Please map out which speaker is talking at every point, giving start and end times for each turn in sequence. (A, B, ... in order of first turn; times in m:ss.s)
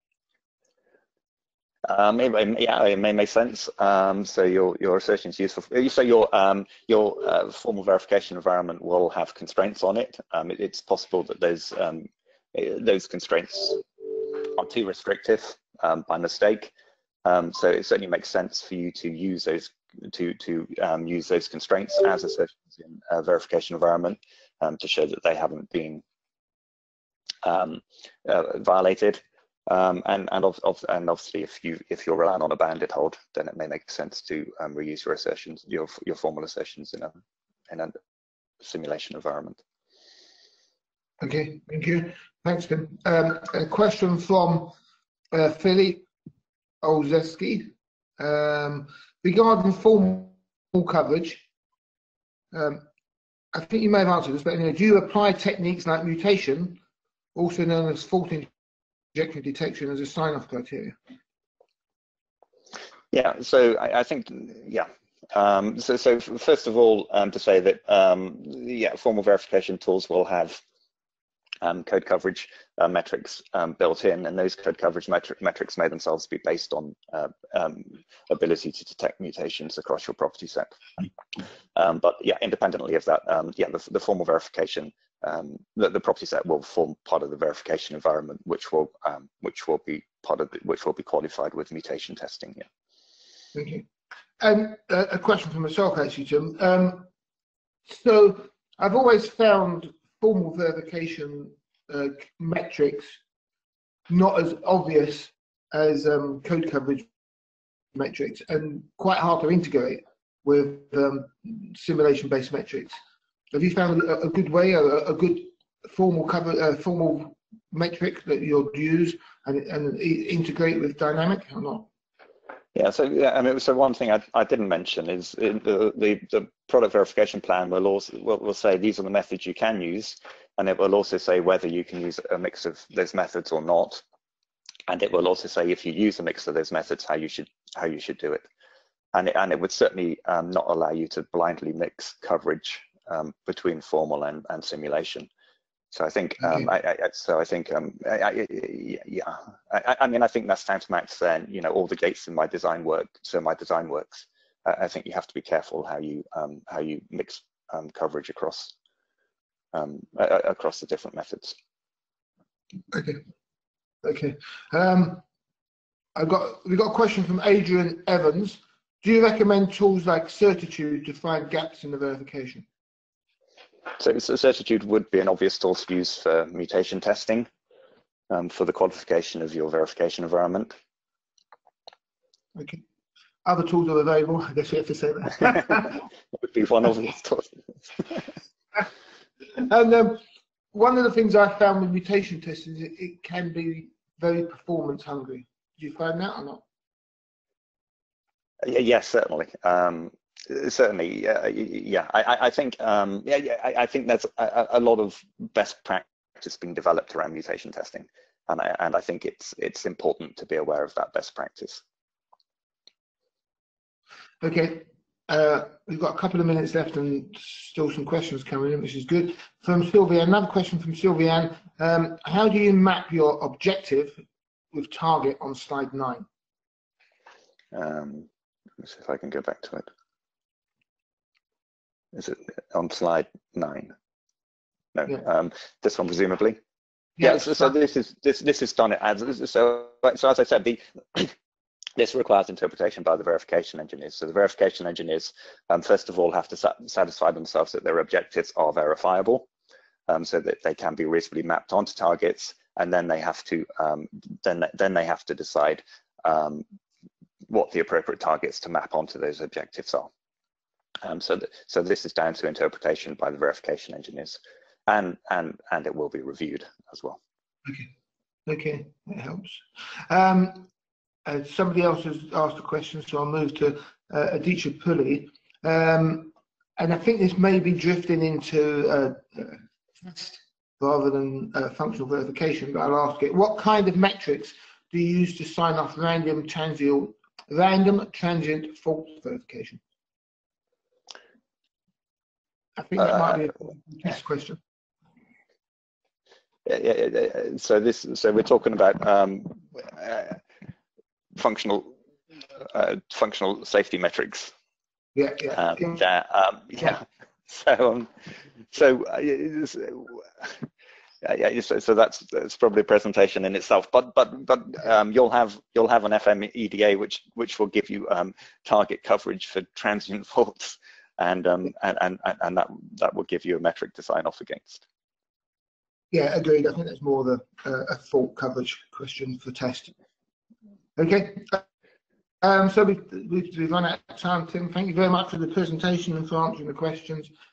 0:01.9-0:16.7 A
0:17.2-0:26.0 A
0:27.4-0:37.1 A
0:38.6-0:39.6 A
0:41.2-0:44.7 B
0:45.3-0:46.1 B
0:46.8-0:51.4 B
0:52.5-0:52.8 B
0:53.5-0:56.8 B
0:57.3-0:58.5 B
0:59.1-1:01.0 B
1:03.1-1:10.6 A
1:11.6-1:21.1 A
1:21.7-1:32.6 A
1:33.5-1:33.9 B
1:34.4-1:37.1 B
1:37.9-1:43.2 B
1:44.1-1:47.1 B
1:47.9-1:52.9 B
1:53.5-2:01.9 B
2:02.7-2:14.0 A
2:14.9-2:18.5 A
2:19.1-2:25.3 A
2:25.9-2:38.7 A
2:26.4-2:26.7 B
2:39.7-2:41.6 A
2:42.9-2:43.2 B
2:44.0-2:45.2 B
2:46.1-2:52.6 B
2:54.0-2:57.5 A
2:58.3-3:00.7 A
3:02.5-3:02.8 B
3:03.4-3:06.0 B
3:06.4-3:08.3 A
3:09.5-3:10.2 B
3:10.7-3:16.6 B
3:18.6-3:31.8 A
3:34.4-3:44.2 B
3:44.7-3:46.2 B
3:47.7-3:48.3 A
3:48.8-3:49.9 A
3:52.1-3:53.9 A
3:54.9-3:56.6 A
3:57.2-3:57.6 B
3:57.2-4:01.3 A
4:02.0-4:09.5 A
4:10.1-4:16.6 A
4:17.5-4:20.1 A
4:21.0-4:27.2 A
4:27.6-4:27.9 B
4:28.5-4:30.7 B
4:31.2-4:49.8 B
4:52.8-4:54.6 B
4:56.6-5:00.4 A
5:01.4-5:01.9 A
5:02.6-5:04.5 A
5:05.1-5:06.0 B
5:05.5-5:08.1 A
5:08.7-5:10.6 A
5:11.2-5:24.8 A
5:26.1-5:29.9 B
5:31.0-5:31.6 B
5:32.4-5:37.3 B